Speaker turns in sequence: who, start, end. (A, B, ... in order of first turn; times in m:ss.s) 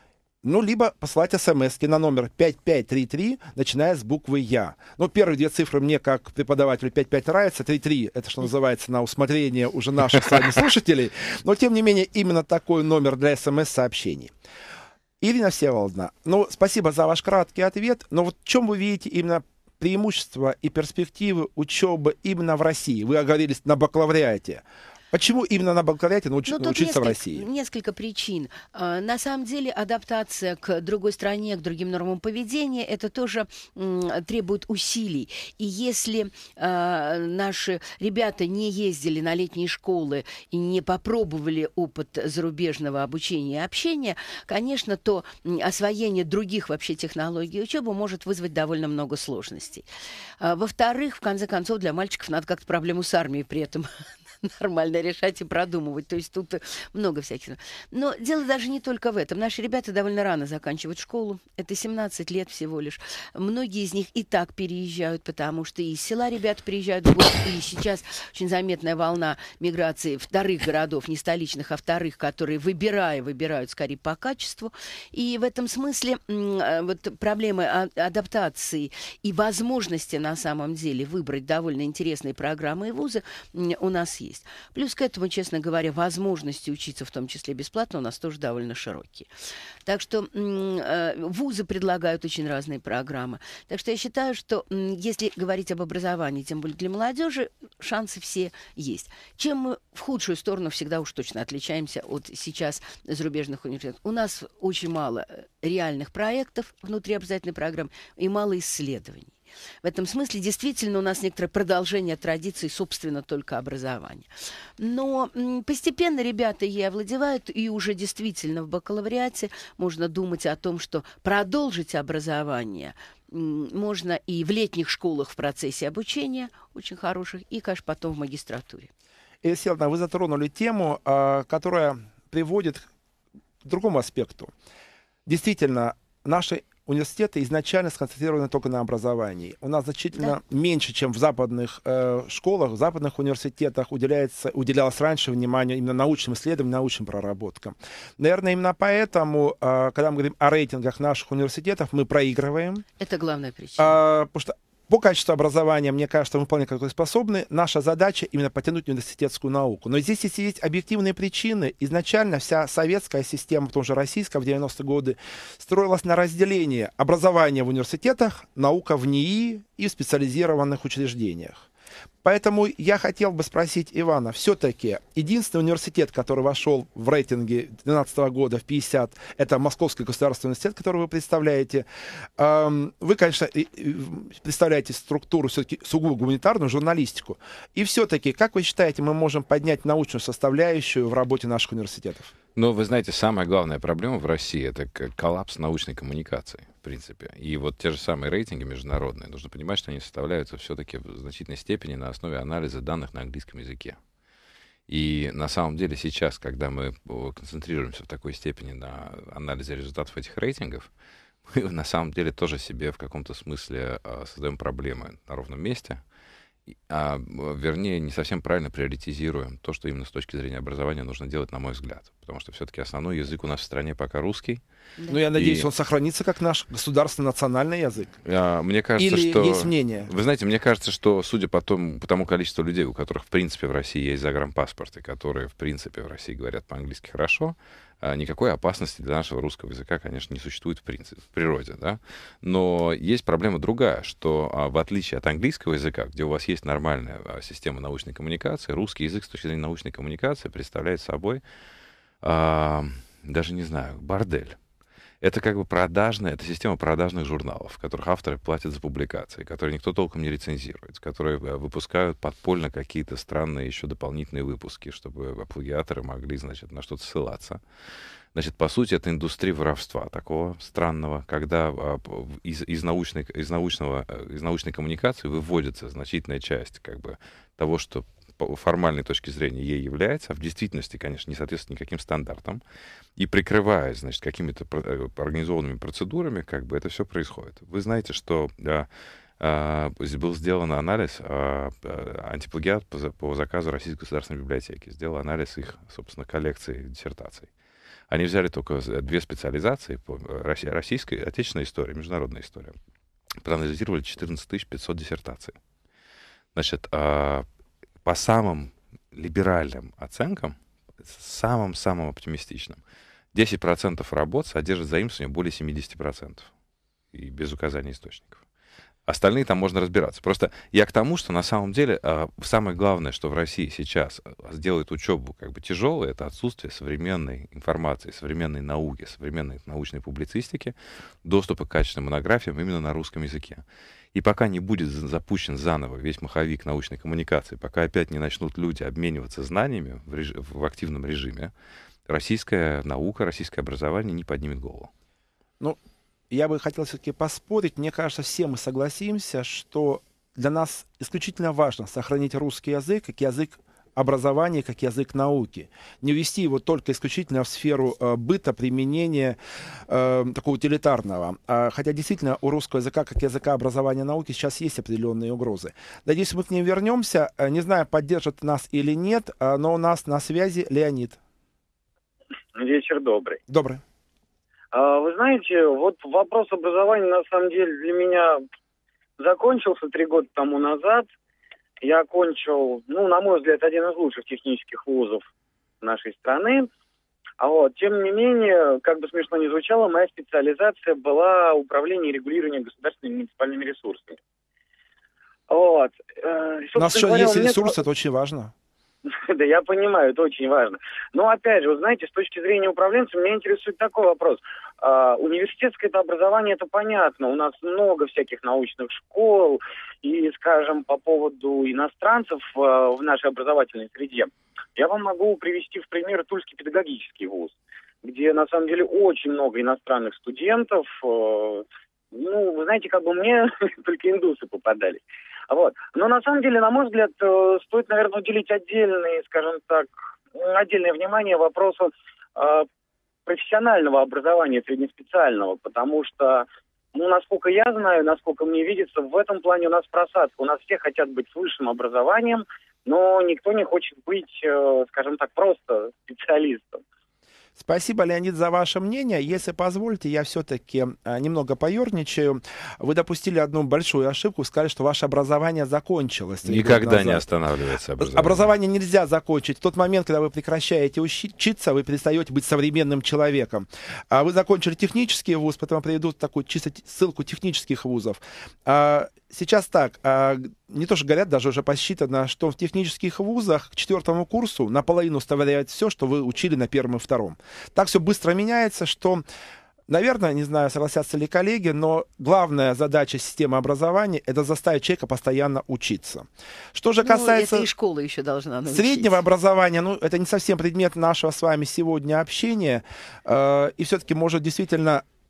0:00.4-0:14.3 A
0:15.2-0:27.5 A
0:26.4-0:49.9 B
0:50.4-1:29.3 B
1:29.9-2:08.9 B
2:09.4-2:12.9 A
2:13.6-2:14.5 A
2:15.3-2:32.8 A
2:33.0-2:34.0 B
2:33.8-2:51.6 A
2:52.2-3:01.8 A
3:02.4-3:12.3 A
3:12.6-3:24.0 C
3:24.9-3:30.9 C
3:31.5-3:36.0 C
3:36.7-3:44.6 C
3:45.1-3:48.2 A
3:45.4-3:45.7 C
3:48.2-4:11.4 C
3:49.0-3:50.1 A
4:12.2-4:14.6 C
4:15.2-4:27.6 C
4:28.3-4:42.6 C
4:43.2-4:48.9 C
4:49.4-4:57.5 C
4:58.1-5:02.8 C
5:03.4-5:05.6 C
5:06.6-5:07.5 C
5:08.0-5:12.8 C
5:13.3-5:16.5 C
5:17.1-5:18.4 C
5:19.1-5:41.5 C
5:42.1-5:44.9 C
5:46.3-5:59.4 A
5:59.9-6:11.2 A
6:12.6-6:13.4 D
6:13.5-6:13.8 A
6:14.7-6:18.4 D
6:19.2-6:21.1 D
6:21.8-6:25.2 D
6:25.8-6:26.7 D
6:27.4-6:34.2 D
6:35.5-6:37.8 D
6:36.8-6:38.5 A
6:39.1-7:12.7 D
7:13.3-7:26.8 D
7:27.6-7:37.3 A
7:36.4-7:38.5 C
7:38.0-7:59.2 A
7:59.9-8:07.7 A
8:07.0-8:09.2 B
8:08.7-8:15.0 A